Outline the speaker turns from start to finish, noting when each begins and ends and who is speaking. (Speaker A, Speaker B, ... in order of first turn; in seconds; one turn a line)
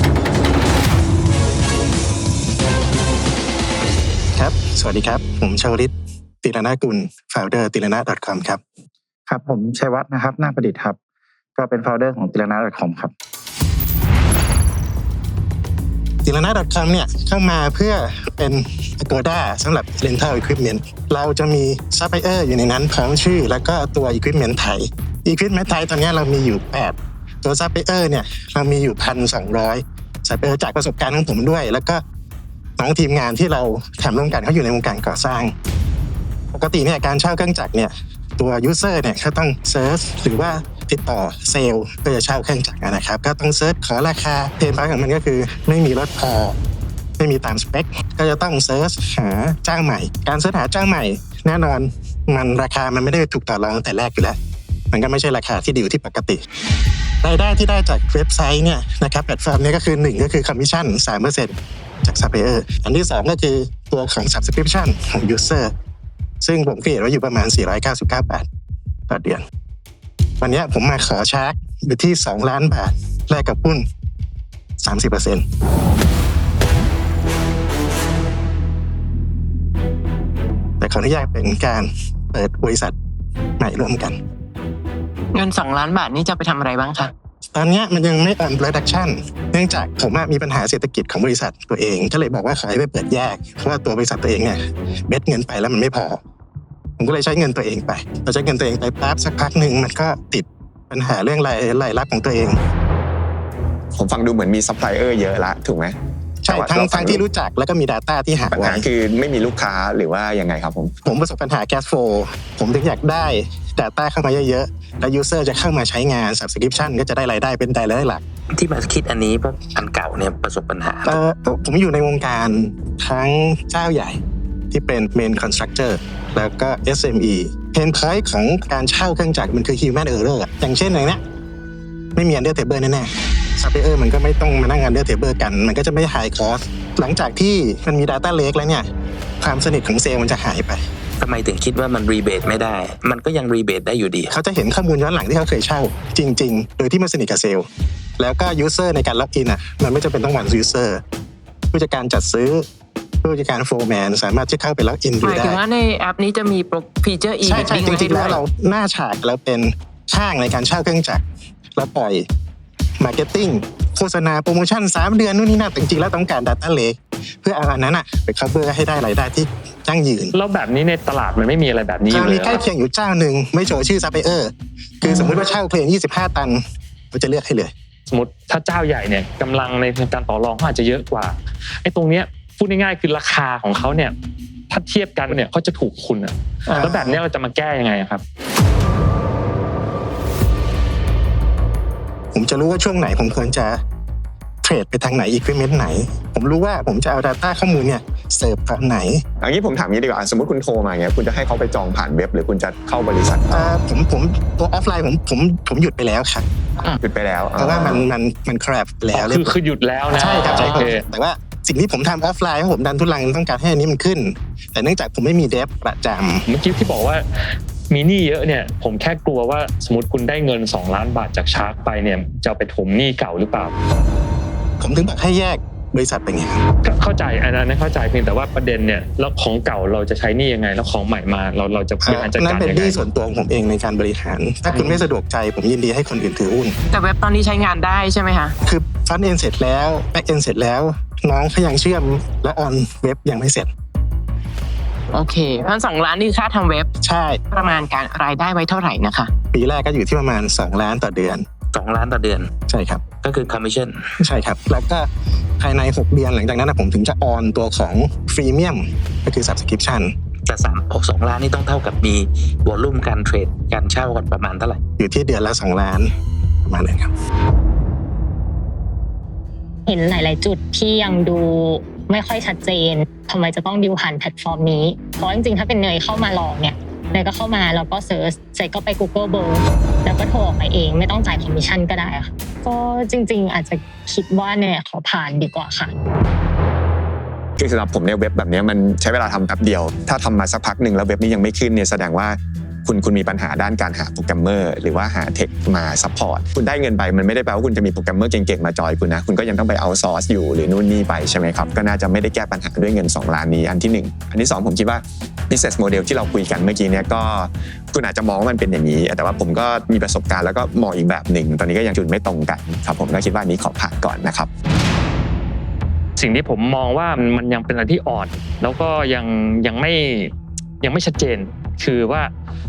Speaker A: 4.3-8.6
Speaker B: 9.3-11.0
Speaker B: 11.5-13.1
Speaker A: 16.2-32.0
Speaker A: 32.8-35.5
Speaker A: 36.5-46.5
Speaker A: 47.2-54.4
Speaker A: 54.9-56.4
Speaker A: 57.2-65.7
Speaker A: 66.4-68.5
Speaker A: 69.1-69.4
Speaker A: 70.4-73.8
Speaker A: 74.8-75.4
Speaker A: 80.8-82.9
Speaker A: 83.6-84.2
Speaker C: 85.3-87.1
Speaker A: 87.5-96.2
Speaker A: 97.0-102.6
Speaker D: 103.9-106.0
Speaker A: 106.4-108.9
Speaker D: 106.5-107.2
Speaker D: 108.5-111.0
Speaker A: 111.0-118.2
Speaker E: 118.5-121.2
Speaker A: 121.0-124.2
Speaker A: 124.7-131.2
Speaker A: 132.2-138.9
Speaker A: 139.4-140.8
Speaker E: 141.2-144.3
Speaker A: 144.3-147.7
Speaker A: 148.2-151.0
Speaker A: 151.7-152.6
Speaker A: 153.2-155.6
Speaker C: 155.2-158.4
Speaker A: 157.4-161.2
Speaker A: 161.8-162.2
Speaker A: 163.0-170.3
Speaker F: 170.3-172.6
Speaker A: 172.1-176.6
Speaker A: 177.1-177.7
Speaker F: 178.1-184.2
Speaker F: 184.7-188.2
Speaker A: 186.7-187.2
Speaker A: 192.3-193.8
Speaker A: 194.6-199.2
Speaker D: 199.4-203.7
Speaker A: 203.5-206.4
Speaker D: 207.0-208.1
Speaker A: 207.6-209.6
Speaker F: 209.1-211.1
Speaker A: 210.1-216.4
Speaker C: 210.6-210.9
Speaker F: 216.4-223.7
Speaker A: 224.8-226.6
Speaker F: 226.8-233.0
Speaker A: 232.0-236.8
Speaker C: 234.7-235.0
Speaker C: 236.9-238.5
Speaker A: 238.6-243.7
Speaker C: 245.1-246.9
Speaker A: 247.0-247.4
Speaker C: 247.5-249.3
Speaker A: 249.5-251.4
Speaker E: 251.7-252.5
Speaker A: 252.7-253.0
Speaker E: 253.2-254.0
Speaker A: 254.2-255.1
Speaker A: 255.6-260.1
Speaker E: 260.5-264.8
Speaker A: 265.0-266.1
Speaker A: 266.6-267.1
Speaker G: 269.9-285.9
Speaker D: 287.6-314.5
Speaker F: 316.2-322.3